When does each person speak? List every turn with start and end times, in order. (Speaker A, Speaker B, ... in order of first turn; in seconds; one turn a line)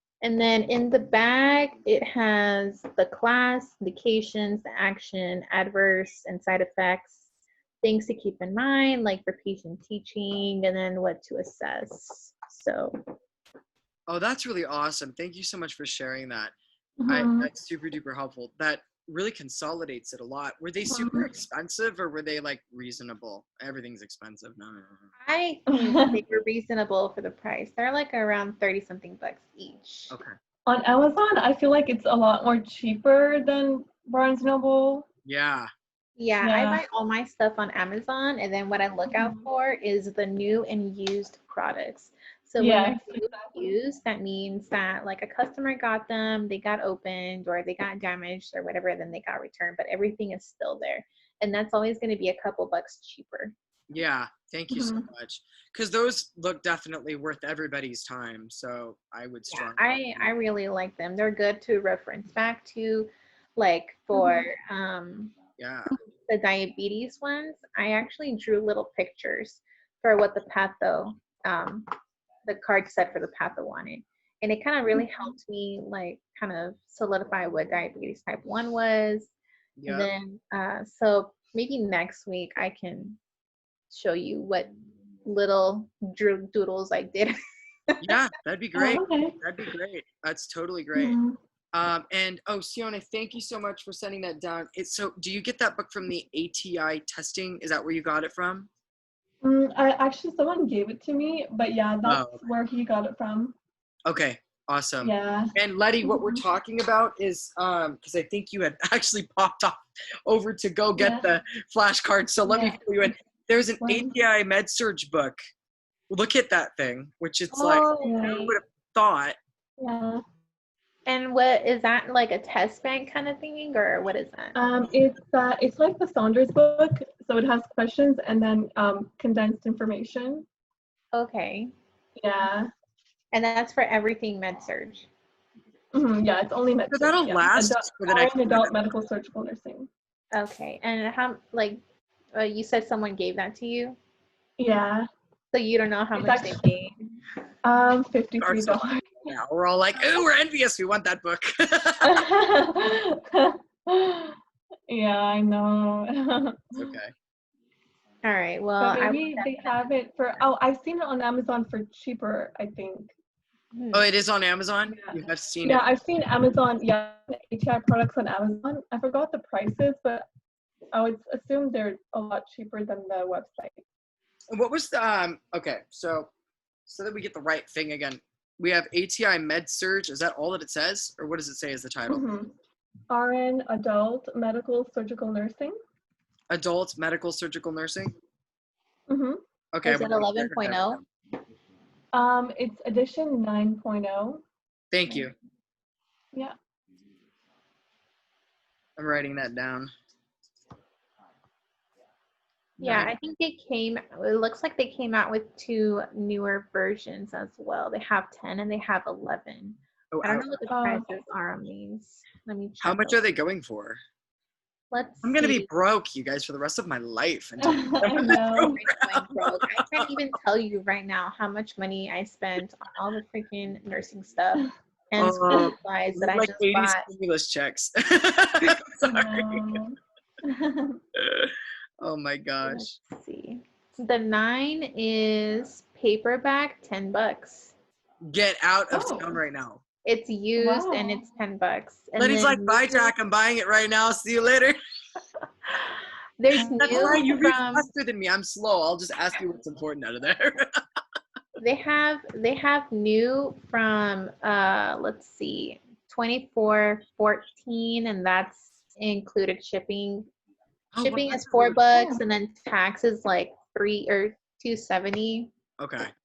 Speaker A: 0.2-7.3
Speaker A: 7.8-13.1
Speaker B: 14.1-25.1
Speaker C: 17.0-17.5
Speaker C: 20.9-21.3
Speaker A: 25.2-30.1
Speaker C: 25.7-26.2
Speaker C: 30.7-35.1
Speaker B: 35.3-35.7
Speaker A: 36.2-53.5
Speaker C: 36.4-36.9
Speaker C: 39.1-39.5
Speaker C: 42.6-43.7
Speaker B: 53.9-60.3
Speaker C: 54.7-55.1
Speaker A: 59.5-65.4
Speaker C: 64.1-64.5
Speaker B: 65.6-65.9
Speaker A: 66.3-71.9
Speaker A: 72.5-79.3
Speaker B: 79.8-80.1
Speaker A: 79.9-83.2
Speaker A: 83.9-84.7
Speaker A: 85.2-87.3
Speaker B: 88.0-91.2
Speaker C: 88.8-89.4
Speaker C: 91.0-91.4
Speaker B: 91.7-98.7
Speaker C: 99.4-103.5
Speaker B: 102.0-102.5
Speaker B: 104.1-115.4
Speaker C: 105.0-105.5
Speaker C: 106.0-106.4
Speaker C: 111.0-111.3
Speaker A: 112.5-112.7
Speaker C: 113.8-114.1
Speaker B: 116.1-119.4
Speaker A: 117.5-118.6
Speaker C: 117.9-118.5
Speaker C: 119.8-120.2
Speaker A: 121.1-124.6
Speaker C: 124.5-130.4
Speaker A: 131.1-131.7
Speaker C: 132.2-132.7
Speaker A: 133.3-135.1
Speaker C: 135.9-139.9
Speaker B: 136.9-138.9
Speaker A: 140.3-141.8
Speaker A: 142.3-144.0
Speaker C: 144.6-145.1
Speaker A: 145.5-147.0
Speaker C: 146.2-146.7
Speaker C: 147.6-149.3
Speaker B: 148.4-152.2
Speaker C: 152.0-154.4
Speaker C: 154.9-156.9
Speaker B: 156.8-157.1
Speaker A: 158.2-159.9
Speaker C: 158.8-163.1
Speaker A: 163.7-164.1
Speaker B: 163.9-165.8
Speaker C: 164.9-170.3
Speaker C: 170.9-173.8
Speaker B: 174.5-176.3
Speaker B: 176.9-182.2
Speaker C: 182.1-182.5
Speaker C: 183.1-185.8
Speaker B: 186.5-188.1
Speaker C: 189.1-189.4
Speaker B: 189.7-191.0
Speaker A: 189.8-191.0
Speaker C: 192.1-194.4
Speaker B: 194.9-195.3
Speaker B: 199.0-199.9
Speaker B: 202.8-203.2
Speaker A: 202.8-213.3
Speaker B: 210.1-210.5
Speaker C: 210.7-211.1
Speaker B: 212.8-214.0
Speaker A: 214.9-215.7
Speaker B: 215.2-220.1
Speaker C: 217.6-218.8
Speaker A: 218.5-227.1
Speaker B: 225.2-229.8
Speaker C: 229.1-231.0
Speaker B: 231.2-232.9
Speaker A: 232.6-237.7
Speaker B: 238.2-239.8
Speaker C: 238.9-239.4
Speaker A: 240.1-243.1
Speaker C: 240.6-241.2
Speaker B: 242.2-244.8
Speaker A: 245.7-247.9
Speaker B: 246.6-250.7
Speaker A: 251.6-260.3
Speaker B: 260.9-261.9
Speaker A: 261.0-265.5
Speaker B: 265.8-266.1